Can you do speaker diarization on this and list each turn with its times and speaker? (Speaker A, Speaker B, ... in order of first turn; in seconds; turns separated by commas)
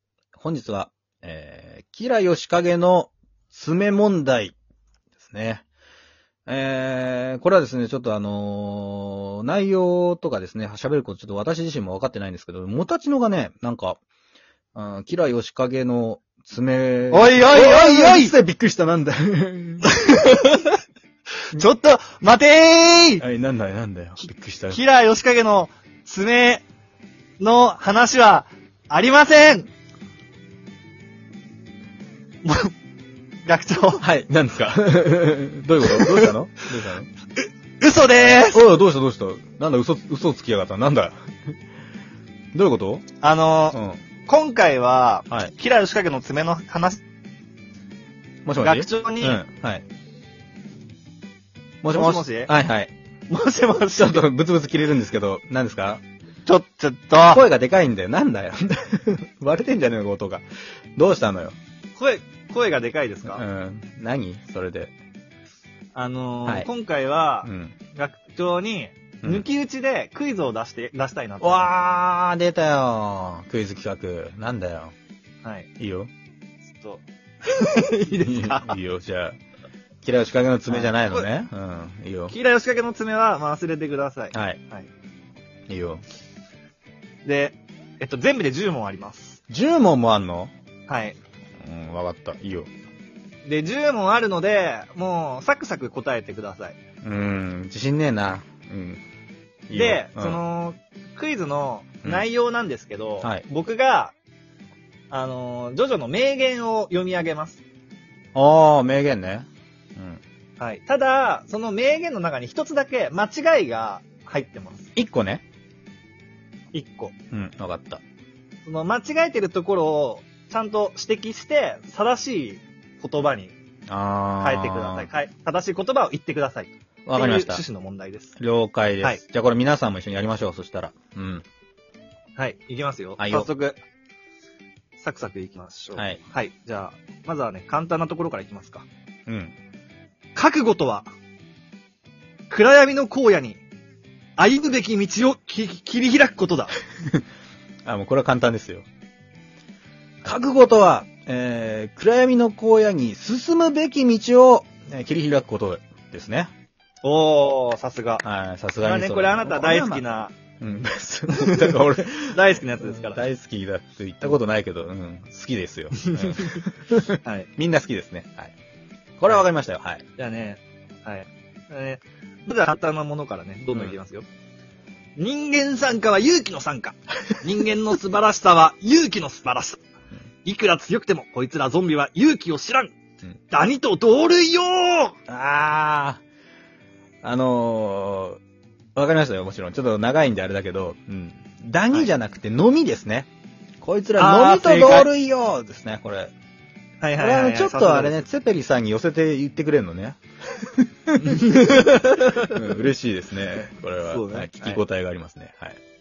Speaker A: 0.3-4.5, Speaker A: 5.2-5.6, Speaker A: 6.5-14.0, Speaker A: 14.7-19.9, Speaker B: 17.1-18.3, Speaker B: 19.9-20.8, Speaker B: 21.5-23.2, Speaker A: 23.2-24.8, Speaker B: 24.7-26.6, Speaker B: 27.4-29.7, Speaker B: 32.4-32.7, Speaker B: 33.5-34.0, Speaker A: 34.0-37.1, Speaker B: 35.8-36.3, Speaker B: 37.8-38.7, Speaker A: 38.3-41.5, Speaker A: 42.5-43.1, Speaker B: 43.2-47.0, Speaker A: 43.7-44.0, Speaker A: 48.5-49.8, Speaker B: 48.6-49.4, Speaker A: 51.8-52.9, Speaker B: 51.9-52.5, Speaker B: 53.3-54.2, Speaker A: 53.9-56.0, Speaker B: 56.5-57.5, Speaker A: 57.2-60.4, Speaker A: 61.0-61.5, Speaker B: 62.0-63.4, Speaker A: 63.3-64.9, Speaker B: 65.9-71.7, Speaker A: 67.4-67.7, Speaker A: 69.2-69.5, Speaker A: 71.4-74.9, Speaker B: 75.4-75.7, Speaker A: 75.8-76.1, Speaker B: 76.7-78.8, Speaker A: 78.1-79.4, Speaker A: 80.0-82.3, Speaker B: 80.7-81.3, Speaker B: 82.3-84.9, Speaker A: 84.3-84.6, Speaker A: 85.7-86.0, Speaker B: 87.2-89.4, Speaker A: 89.5-90.5, Speaker B: 90.9-91.2, Speaker A: 91.6-92.7, Speaker B: 93.4-96.8, Speaker A: 97.0-99.0, Speaker A: 99.7-100.4, Speaker B: 99.7-104.1, Speaker B: 105.1-107.6, Speaker A: 108.3-110.2, Speaker B: 110.6-114.9, Speaker A: 114.9-115.4, Speaker B: 116.7-117.1, Speaker A: 117.3-118.0, Speaker B: 118.6-123.5, Speaker A: 123.9-125.1, Speaker B: 124.4-128.3, Speaker A: 127.0-127.6, Speaker A: 128.4-131.4, Speaker B: 132.4-133.8, Speaker A: 133.2-133.5, Speaker B: 135.0-138.8, Speaker A: 135.9-136.2, Speaker A: 139.3-139.5, Speaker B: 140.3-141.1, Speaker B: 142.5-143.6, Speaker B: 144.4-146.7, Speaker A: 147.8-148.8, Speaker A: 150.2-156.5, Speaker B: 157.0-158.2, Speaker A: 158.2-160.0, Speaker B: 158.8-160.3, Speaker A: 160.6-168.5, Speaker B: 161.3-163.2, Speaker B: 166.1-166.6, Speaker B: 167.2-167.5, Speaker A: 169.2-170.0, Speaker B: 170.2-174.2, Speaker B: 175.2-179.8, Speaker B: 180.4-182.9, Speaker B: 183.5-185.2, Speaker A: 185.3-186.2, Speaker A: 187.2-188.4, Speaker A: 188.9-193.3, Speaker A: 193.8-196.3, Speaker B: 194.2-195.1, Speaker B: 197.0-198.2, Speaker A: 197.2-205.8, Speaker B: 201.2-202.6, Speaker B: 204.0-204.8